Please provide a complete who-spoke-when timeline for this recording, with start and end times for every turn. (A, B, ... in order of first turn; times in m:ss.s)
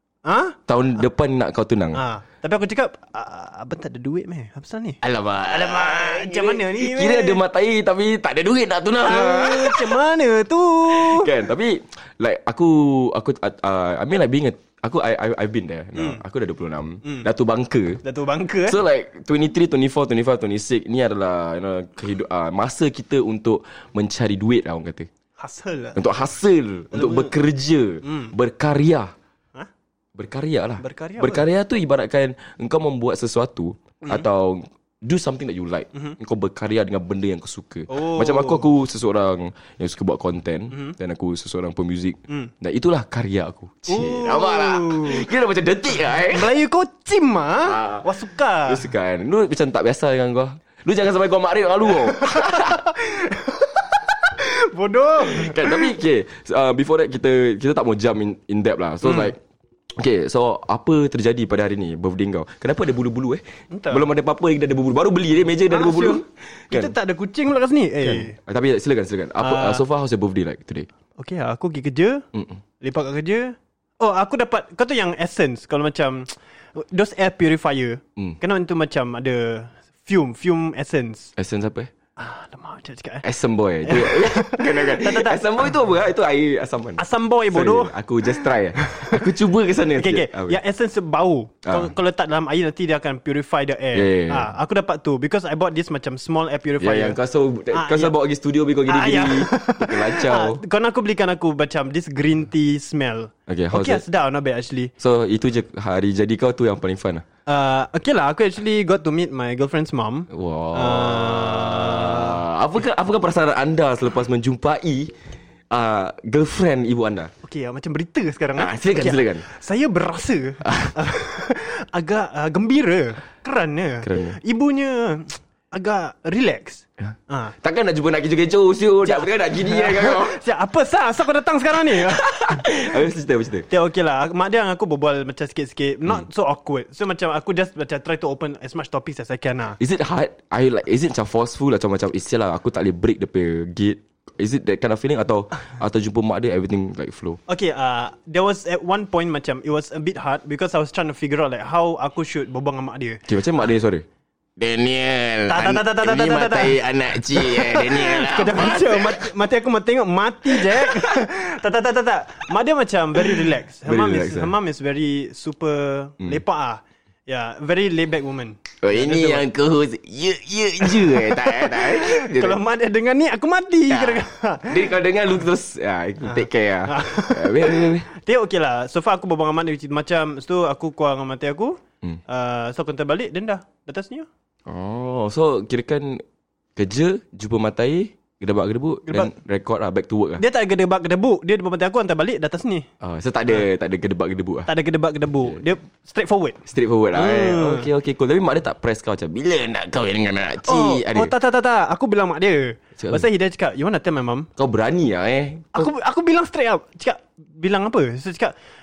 0:00.2-0:00.6 A
0:00.7-0:02.0 B
0:01.9-0:07.4 A
0:05.0-0:10.0 B
0:09.0-0:11.3 A
0:10.9-0:18.0 B
0:16.0-0:16.2 A
0:18.0-0:18.8 A
0:18.6-0:25.1 B
0:25.4-0:26.0 A
0:25.9-0:29.1 B
0:26.9-0:27.3 A
0:28.0-0:28.3 A
0:30.2-0:46.5 B
0:30.8-0:31.4 A
0:37.9-0:38.6 A
0:40.7-0:41.0 A
0:43.9-0:45.3 A
0:46.2-0:48.9 A
0:47.6-0:48.1 B
0:48.6-0:52.8 B
0:51.9-0:55.9 A
0:55.2-0:59.4 B
0:59.0-0:59.3 A
1:00.0-1:06.9 B
1:03.7-1:04.0 A
1:05.7-1:08.4 A
1:08.0-1:10.9 B
1:09.4-1:09.8 A
1:11.2-1:12.2 A
1:12.3-1:12.6 B
1:12.8-1:21.3 A
1:21.4-1:21.9 B
1:22.2-1:23.2 A
1:23.2-1:30.6 B
1:23.8-1:25.4 A
1:27.0-1:27.9 A
1:28.8-1:29.2 A
1:30.0-1:37.2 A
1:31.6-1:31.9 B
1:33.9-1:34.5 B
1:36.8-1:40.6 B
1:37.7-1:38.1 A
1:38.9-1:44.9 A
1:43.5-1:44.0 B
1:45.0-1:47.2 B
1:47.5-1:52.4 A
1:50.3-1:55.1 B
1:55.7-1:57.3 B
1:57.4-2:07.5 A
1:58.6-1:59.4 B
2:00.6-2:01.0 B
2:04.0-2:04.4 B
2:07.0-2:10.4 B
2:09.0-2:12.8 A
2:11.8-2:13.7 B
2:13.7-2:19.8 A
2:19.8-2:27.4 B
2:27.5-2:33.2 A
2:33.3-2:34.0 B
2:34.6-2:39.3 B
2:35.5-2:49.4 A
2:40.5-2:41.2 B
2:43.1-2:44.5 B
2:48.8-2:52.6 B
2:50.8-2:54.9 A
2:53.9-2:58.1 B
2:56.2-3:04.3 A
3:04.7-3:06.2 B
3:06.8-3:10.4 B
3:09.1-3:09.3 A
3:10.4-3:12.9 A
3:13.0-3:14.7 B
3:14.7-3:16.6 A
3:16.6-3:21.3 B
3:17.1-3:17.9 A
3:20.6-3:24.5 A
3:23.0-3:23.2 B
3:24.6-3:25.9 B
3:25.7-3:28.5 A